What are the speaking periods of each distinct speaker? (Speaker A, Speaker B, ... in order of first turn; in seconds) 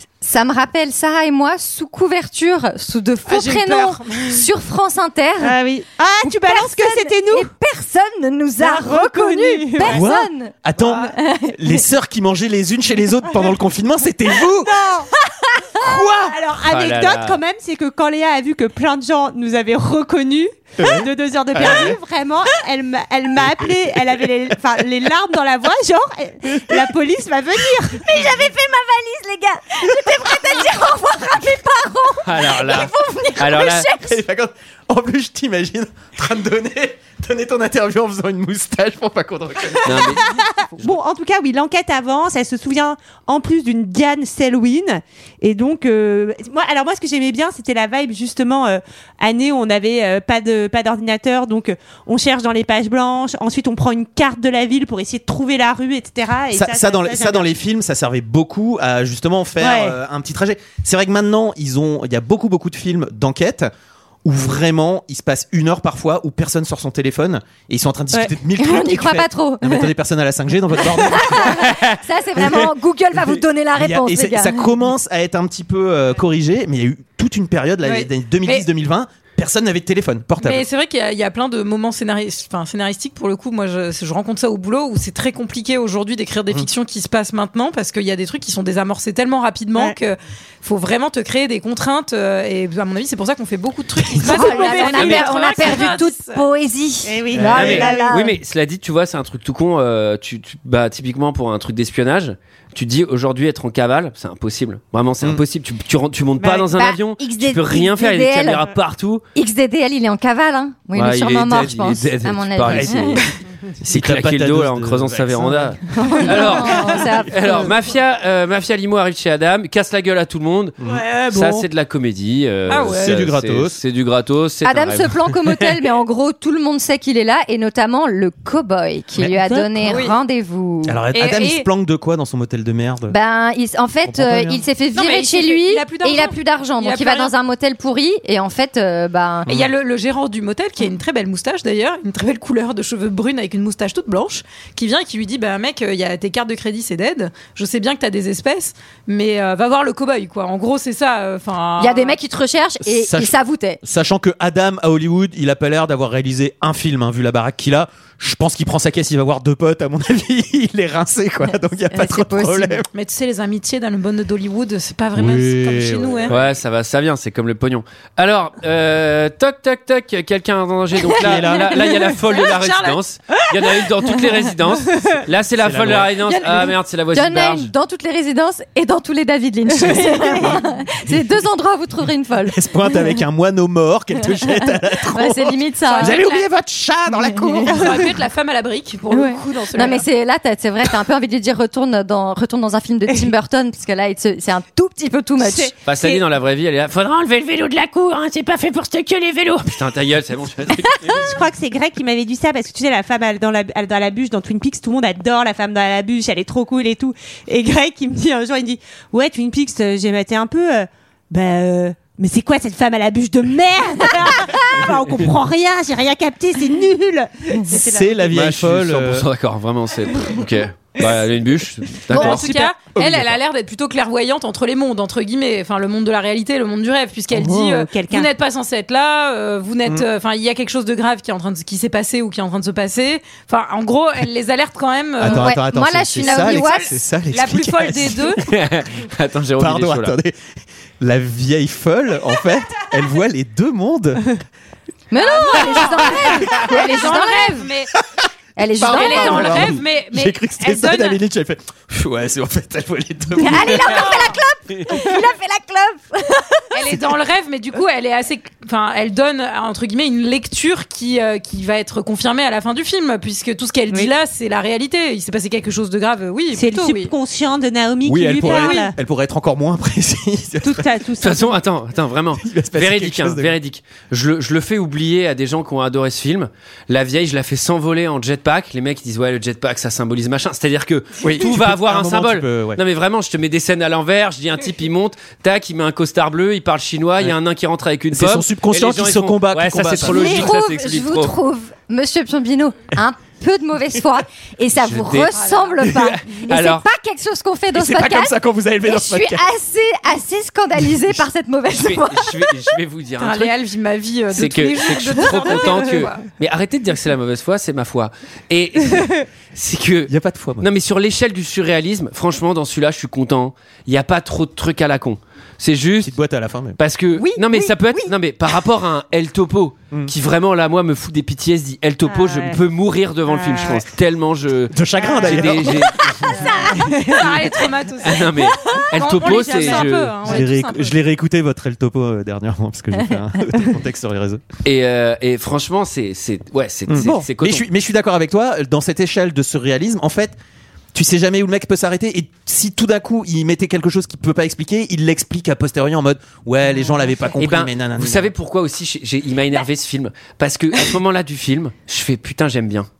Speaker A: 0.2-5.6, 6.2-11.8, 15.2-15.8, 28.0-34.2, 68.6-69.9, 70.9-74.7, 94.2-98.3, 106.7-108.7, 109.3-113.2, 116.0-117.7, 124.6-131.0, 133.1-139.5, 151.8-153.8, 161.9-162.8, 176.2-183.2, 184.2-186.2, 187.2-187.7, 189.1-195.7, 235.2-236.9, 245.1-247.7, 248.6-249.7, 253.4-256.8, 290.0-302.7
Speaker B: 3.3-4.4, 77.8-78.7, 80.4-96.4, 122.7-123.2, 129.8-130.2, 131.1-131.7, 134.9-137.3, 139.5-152.2, 162.9-166.3, 172.3-173.0, 185.8-186.5, 187.7-190.0, 222.1-235.5, 236.2-238.4, 245.2-247.9, 248.9-251.2, 253.8-254.3, 256.7-267.1, 268.4-268.9, 295.3-295.8, 303.2-306.2, 327.0-331.0
Speaker C: 5.4-7.5, 8.6-10.0, 14.6-15.1, 15.8-28.1, 40.0-57.5, 59.6-59.9, 94.3-95.9, 97.0-98.1, 106.4-106.7, 129.4-130.0, 179.8-180.5, 195.4-196.2, 201.1-218.1, 227.3-228.3, 266.5-268.9, 270.6-271.6, 317.1-318.1, 322.1-322.6, 323.3-323.8, 325.0-325.7, 326.3-327.2, 329.0-330.4
Speaker D: 9.8-14.8, 20.8-22.0, 34.0-40.2, 56.5-63.7, 64.2-71.7, 72.4-80.6, 94.0-94.3, 97.3-97.8, 112.7-113.3, 113.8-116.2, 120.8-121.6, 122.8-123.8, 130.8-133.1, 134.1-134.6, 152.8-162.8, 165.2-166.4, 171.2-171.8, 175.6-176.2, 182.5-188.0, 217.7-219.2, 222.2-223.3, 235.2-238.4, 239.6-240.3, 241.0-244.4, 248.7-254.2, 268.0-270.9, 272.4-273.5, 281.2-282.8, 288.1-290.5, 297.7-299.4, 310.1-310.7, 316.0-316.8, 324.7-326.9, 330.2-334.4, 336.9-340.4, 340.9-348.3
Speaker E: 16.7-17.4, 32.2-33.9, 39.8-41.0, 95.0-95.3, 97.4-109.2, 110.9-113.2, 113.8-120.8, 121.3-125.6, 166.3-177.7, 195.8-201.3, 218.3-222.5, 238.4-240.2, 271.2-291.4, 294.8-296.9, 301.7-303.5, 304.3-316.1, 316.8-326.3, 328.0-330.1, 334.6-337.6, 347.4-352.9